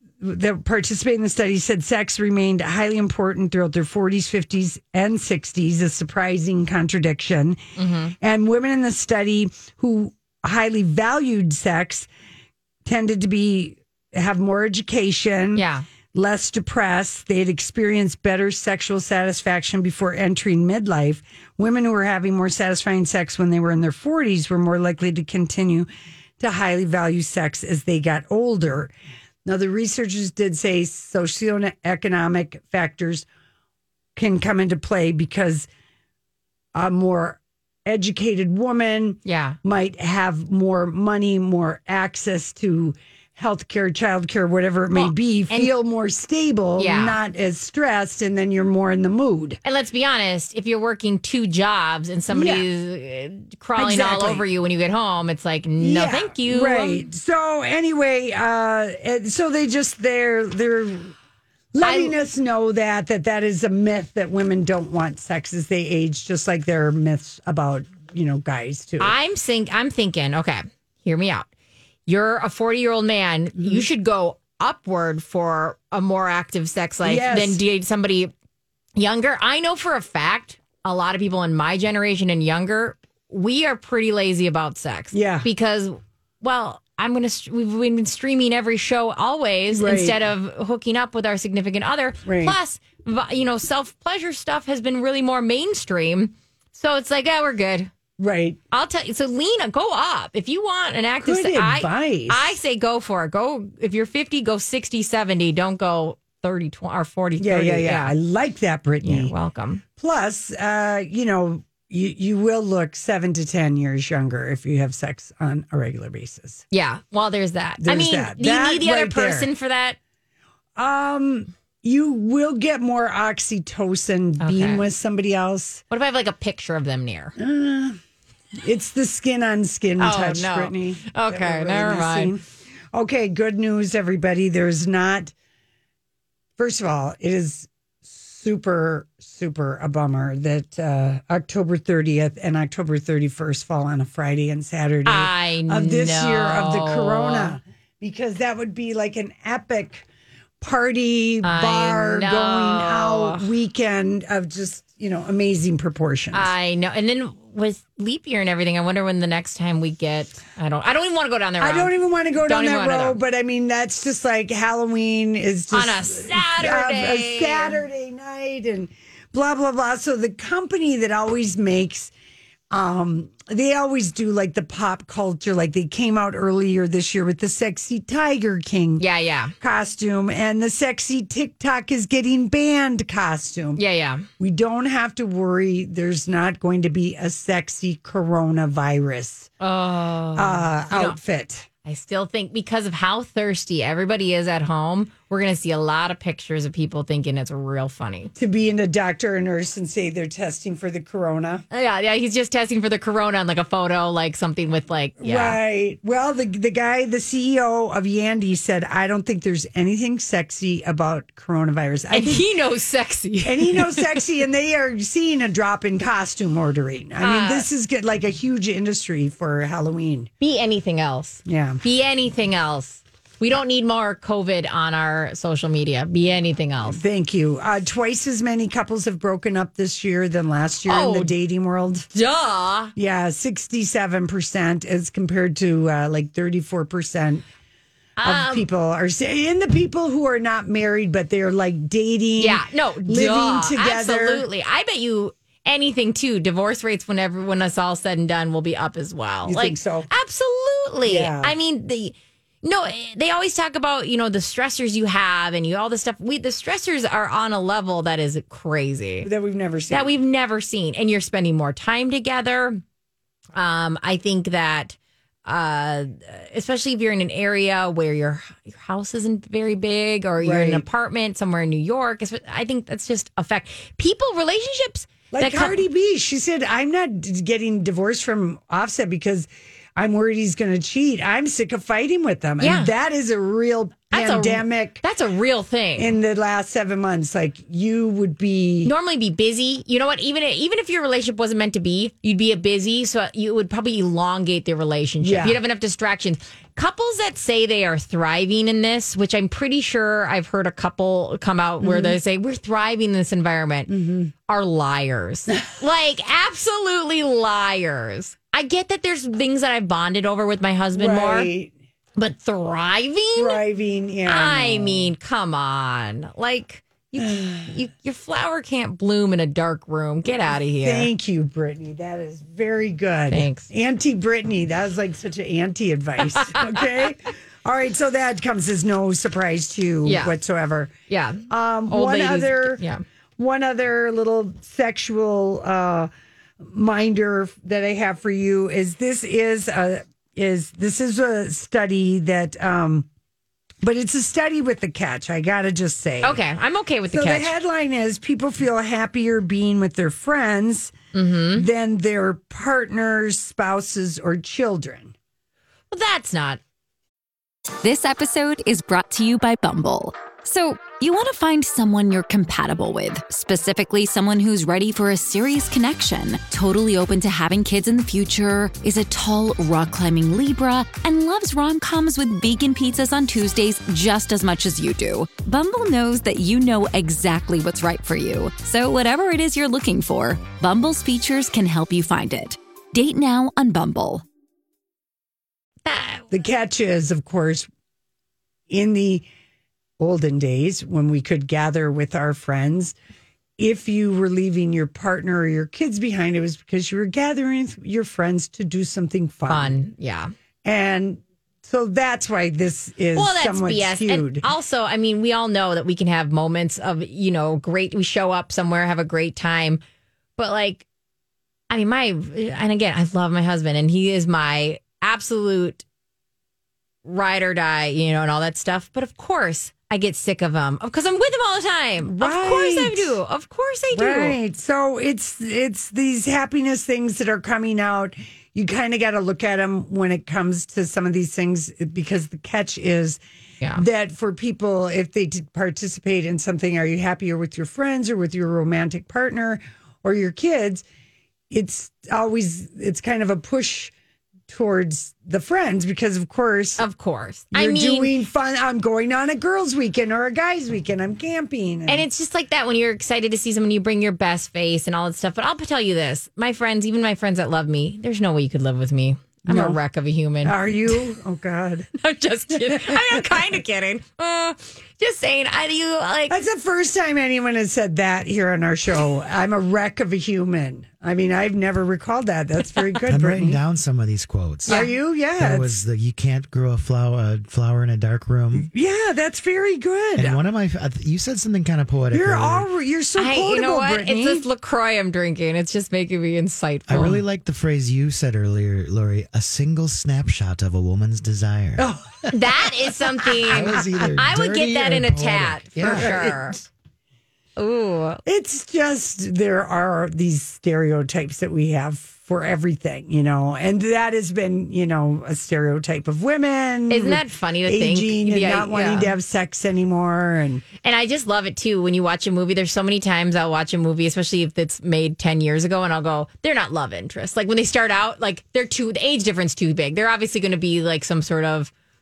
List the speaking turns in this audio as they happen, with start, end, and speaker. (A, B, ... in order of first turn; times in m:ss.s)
0:00.2-0:07.6 A
0:07.8-0:08.1 B
0:08.2-0:12.1 A
0:12.8-0:25.9 A
0:15.6-0:15.8 B
0:26.4-0:28.9 A
0:29.4-0:33.2 A
0:34.2-0:35.7 A
0:36.7-0:49.6 A
0:39.2-0:39.6 B
0:45.0-0:45.7 B
0:46.8-0:47.2 B
0:49.6-0:57.1 B
0:52.3-0:52.7 A
0:53.8-0:54.4 A
0:55.8-1:01.1 A
1:01.7-1:09.2 A
1:01.8-1:02.2 B
1:09.0-1:11.5 B
1:12.1-1:18.3 B
1:17.0-1:17.6 A
1:19.0-1:37.9 B
1:25.1-1:25.5 A
1:29.7-1:30.2 A
1:32.2-1:32.6 A
1:38.2-1:38.6 A
1:38.7-1:48.1 B
1:41.2-1:42.6 A
1:47.4-1:49.3 A
1:49.0-1:49.8 B
1:50.0-1:56.6 A
1:56.7-2:00.0 B
1:57.8-1:59.5 A
2:00.8-2:05.8 A
2:04.4-2:04.8 B
2:05.9-2:07.3 B
2:07.4-2:08.0 A
2:08.6-2:12.4 A
2:10.0-2:12.4 B
2:12.9-2:15.3 A
2:16.6-2:30.0 A
2:25.0-2:27.6 B
2:30.6-2:36.5 A
2:31.4-2:33.5 B
2:36.3-2:43.2 B
2:41.6-2:52.1 A
2:45.7-2:47.8 B
2:52.7-2:59.0 A
2:59.0-2:59.5 B
2:59.6-3:03.8 A
3:03.8-3:04.3 B
3:04.4-3:09.5 A
3:09.6-3:11.2 B
3:10.4-3:11.7 A
3:11.8-3:18.3 B
3:18.4-3:21.6 A
3:21.7-3:25.6 B
3:25.2-3:32.5 A
3:32.1-3:34.2 B
3:33.4-3:40.3 A
3:37.2-3:37.7 B
3:40.4-3:47.0 B
3:41.4-3:41.8 A
3:46.8-3:52.1 A
3:50.9-3:51.3 B
3:52.1-3:52.9 B
3:53.0-3:57.4 A
3:58.2-3:58.7 B
3:58.2-4:04.4 A
4:02.4-4:19.3 B
4:09.4-4:10.1 A
4:11.0-4:11.5 A
4:19.2-4:20.1 A
4:19.9-4:22.8 B
4:23.6-4:35.8 B
4:30.4-4:30.8 A
4:35.3-4:45.0 A
4:42.6-4:42.9 B
4:44.1-4:46.1 B
4:46.0-4:48.9 A
4:48.8-5:03.9 B
4:55.2-4:55.6 A
5:01.8-5:02.2 A
5:03.9-5:04.3 A
5:04.5-5:11.5 B
5:11.0-5:11.7 A
5:12.2-5:13.6 B
5:13.4-5:15.1 A
5:14.3-5:21.1 B
5:20.8-5:30.9 A
5:23.3-5:23.7 B
5:26.4-5:26.7 B
5:30.0-5:30.4 B
5:31.1-5:33.0 B
5:31.5-5:32.8 A
5:33.4-5:36.1 A
5:36.6-5:43.1 A
5:43.8-5:46.4 A
5:46.2-5:47.5 B
5:47.1-5:55.1 A
5:51.1-5:51.6 B
5:55.9-5:56.6 B
5:57.8-6:24.2 C
6:25.9-6:26.2 B
6:26.3-6:27.7 A
6:28.7-6:29.3 A
6:30.0-6:33.0 A
6:33.6-6:39.8 A
6:39.5-6:40.3 B
6:40.6-6:44.5 A
6:43.2-6:49.8 B
6:50.4-6:50.8 B
6:51.7-6:55.8 B
6:57.0-7:04.4 B
7:02.0-7:03.2 A
7:03.9-7:13.2 A
7:13.8-7:20.8 A
7:21.5-7:23.9 A
7:24.5-7:26.8 A
7:26.8-7:28.1 B
7:27.5-7:32.0 A
7:31.9-7:41.0 B
7:39.5-7:39.8 A
7:40.4-7:41.9 A
7:42.0-7:46.4 B
7:42.5-7:43.4 A
7:46.3-7:53.6 A
7:53.0-7:58.7 D
7:54.7-7:54.9 B
7:54.7-7:55.8 A
7:58.7-8:00.4 A
8:00.2-8:02.7 D
8:02.1-8:04.4 A
8:03.2-8:07.2 B
8:06.9-8:12.7 D
8:11.8-8:12.3 A
8:12.3-8:16.6 B
8:13.2-8:16.2 D
8:15.8-8:16.6 A
8:17.6-8:18.2 B
8:18.2-8:30.7 A
8:26.9-8:29.1 B
8:30.8-8:41.7 B